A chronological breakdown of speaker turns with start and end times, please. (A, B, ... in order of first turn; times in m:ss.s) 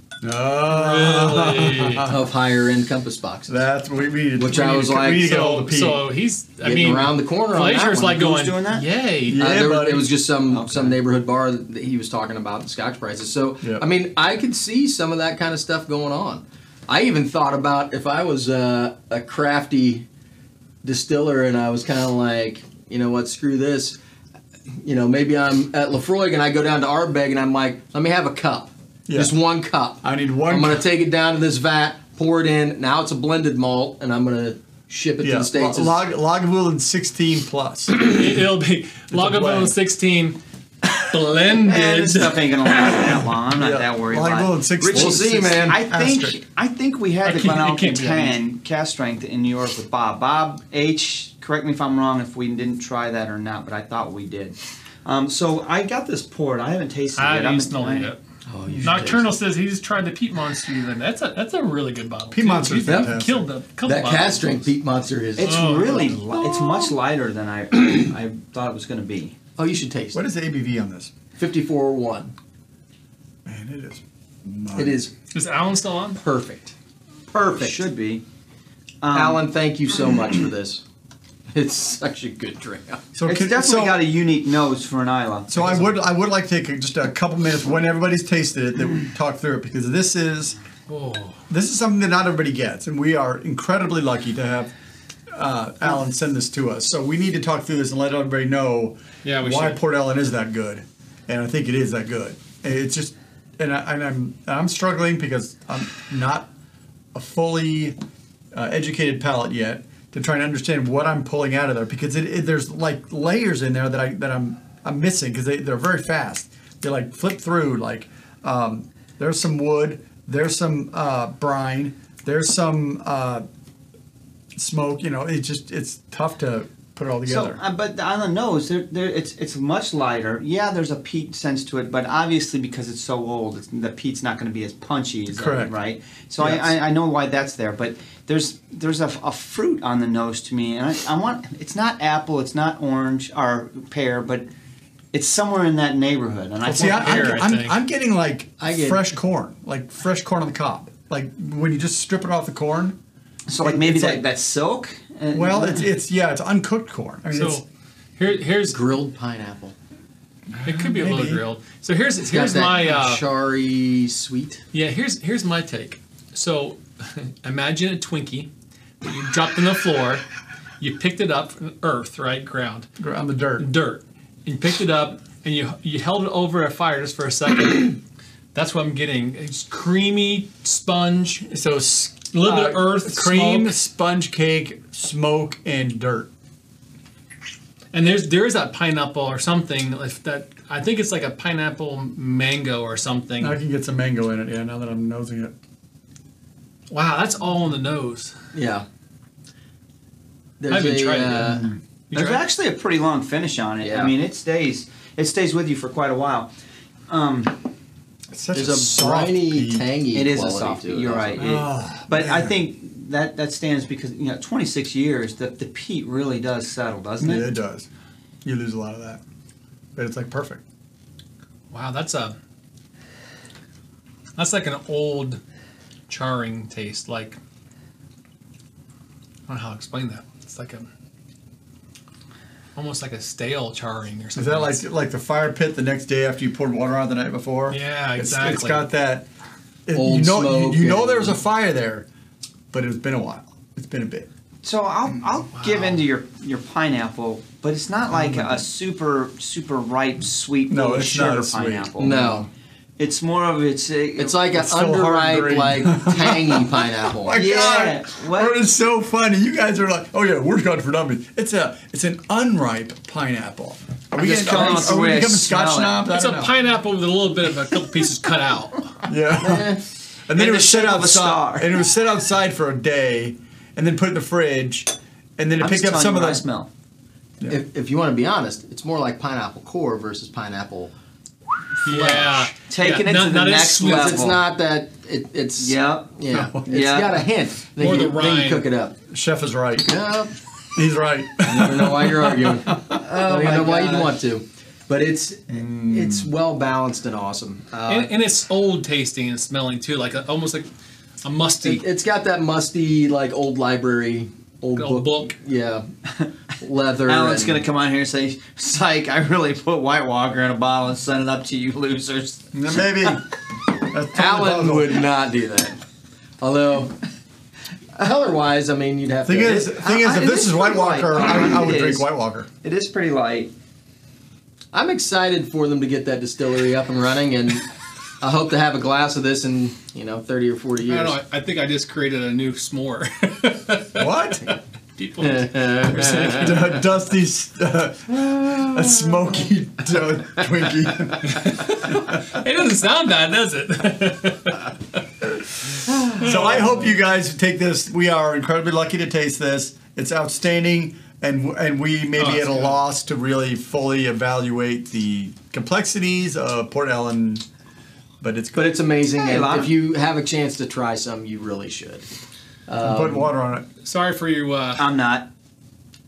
0:00.2-0:02.2 A
0:00.7-0:02.1 B
0:02.0-0:03.6 C
0:03.5-0:06.1 A
0:04.4-0:05.4 C
0:05.2-0:09.4 B
0:06.6-0:08.3 C
0:08.1-0:08.9 D
0:09.2-0:10.1 A
0:09.3-0:20.1 C
0:10.5-0:11.0 D
0:20.8-0:24.0 C
0:24.7-0:36.0 C
0:29.1-0:29.4 A
0:30.0-0:30.8 A
0:35.2-0:38.1 A
0:37.9-0:40.4 B
0:39.1-0:39.8 A
0:40.9-0:43.3 B
0:41.6-0:58.1 D
0:43.6-0:46.4 A
0:44.9-0:45.8 C
0:47.2-0:48.4 B
0:57.2-0:58.2 B
0:58.5-0:59.3 C
0:58.7-0:59.2 A
0:58.8-1:04.7 B
1:02.3-1:03.5 A
1:02.9-1:03.1 C
1:03.8-1:06.9 C
1:05.4-1:09.4 D
1:05.4-1:06.2 B
1:09.6-1:10.2 C
1:10.1-1:11.1 A
1:11.4-1:12.3 C
1:13.5-1:15.0 A
1:14.8-1:15.1 C
1:15.3-1:16.2 B
1:16.2-1:16.7 C
1:17.3-1:17.8 C
1:17.6-1:18.2 D
1:19.0-1:19.4 D
1:19.1-1:20.8 C
1:21.5-1:23.0 C
1:23.2-1:24.0 A
1:23.2-1:25.9 D
1:25.5-1:30.6 A
1:30.9-1:31.4 B
1:31.5-1:34.7 A
1:35.3-1:46.5 A
1:39.2-1:39.8 B
1:47.2-1:48.0 A
1:48.5-2:03.4 A
2:04.6-2:07.6 A
2:07.3-2:24.5 D
2:15.3-2:15.7 A
2:16.4-2:16.7 A
2:25.1-2:27.4 D
2:26.7-2:33.0 A
2:26.7-2:27.8 B
2:28.6-2:29.1 C
2:33.5-2:35.9 D
2:33.6-2:34.2 A
2:35.3-2:37.6 A
2:37.3-2:37.6 B
2:38.2-2:38.8 B
2:38.7-2:39.8 C
2:40.5-2:41.4 A
2:40.6-2:43.2 B
2:42.3-2:44.6 C
2:44.7-2:48.5 B
2:49.0-2:50.2 B
2:50.8-2:52.9 B
2:53.0-2:53.7 A
2:53.6-2:58.0 B
2:58.5-3:01.6 B
3:01.5-3:06.3 A
3:02.3-3:03.8 B
3:07.9-3:13.6 B
3:13.4-3:15.5 A
3:16.9-3:18.3 B
3:18.5-3:18.8 C
3:20.6-3:21.7 C
3:20.7-3:22.4 B
3:22.1-3:26.5 D
3:23.8-3:24.1 C
3:27.1-3:27.6 D
3:28.3-3:29.9 A
3:28.6-3:31.5 C
3:30.1-3:37.5 D
3:31.4-3:32.6 A
3:37.2-3:37.9 A
3:38.4-3:39.2 A
3:40.0-3:40.6 A
3:41.7-3:42.4 B
3:44.4-3:45.4 B
3:46.1-3:47.4 B
3:49.5-3:50.9 B
3:52.8-3:54.8 B
3:54.4-3:59.3 A
3:57.7-3:58.9 B
3:59.9-4:02.1 A
3:59.9-4:01.4 C
4:02.7-4:04.3 A
4:04.6-4:12.4 D
4:05.5-4:06.0 B
4:08.1-4:08.7 A
4:10.7-4:12.4 A
4:12.0-4:12.5 C
4:13.0-4:14.4 D
4:14.2-4:17.4 C
4:14.5-4:26.6 A
4:17.3-4:18.6 D
4:24.2-4:26.0 D
4:26.0-4:29.0 B
4:29.1-4:29.8 A
4:29.4-4:29.8 C
4:30.3-4:36.4 A
4:30.3-4:31.7 D
4:35.6-4:36.7 D
4:37.5-4:40.9 C
4:41.8-4:42.5 C
4:41.8-4:44.3 B
4:42.7-4:44.4 D
4:43.8-4:49.0 C
4:45.6-4:46.1 D
4:46.3-4:46.7 A
4:46.7-4:47.2 D
4:47.8-4:48.7 B
4:49.1-4:49.9 A
4:49.8-4:50.3 C
4:50.8-4:53.0 A
4:51.4-4:58.1 C
4:52.9-4:54.2 D
4:55.5-4:56.3 A
4:57.9-5:00.7 B
5:01.2-5:01.8 B
5:01.6-5:05.9 C
5:04.8-5:05.3 B
5:06.6-5:07.6 C
5:07.1-5:12.5 D
5:12.5-5:13.3 A
5:13.9-5:15.0 A
5:14.1-5:15.8 C
5:16.4-5:17.0 C
5:18.0-5:19.8 C
5:19.2-5:22.5 A
5:19.8-5:22.1 D
5:22.6-5:23.5 D
5:24.7-5:27.7 C
5:28.2-5:31.2 C
5:30.9-5:36.3 B
5:34.0-5:34.5 A
5:35.2-5:36.6 C
5:35.8-5:41.5 A
5:41.2-5:44.7 B
5:46.1-5:46.7 B
5:46.2-5:57.4 A
5:52.2-5:52.8 B
5:58.2-5:58.8 A
5:58.5-6:02.1 C
5:59.2-5:59.8 D
6:02.7-6:03.3 C
6:02.8-6:03.7 A
6:03.8-6:04.9 B
6:04.8-6:05.3 D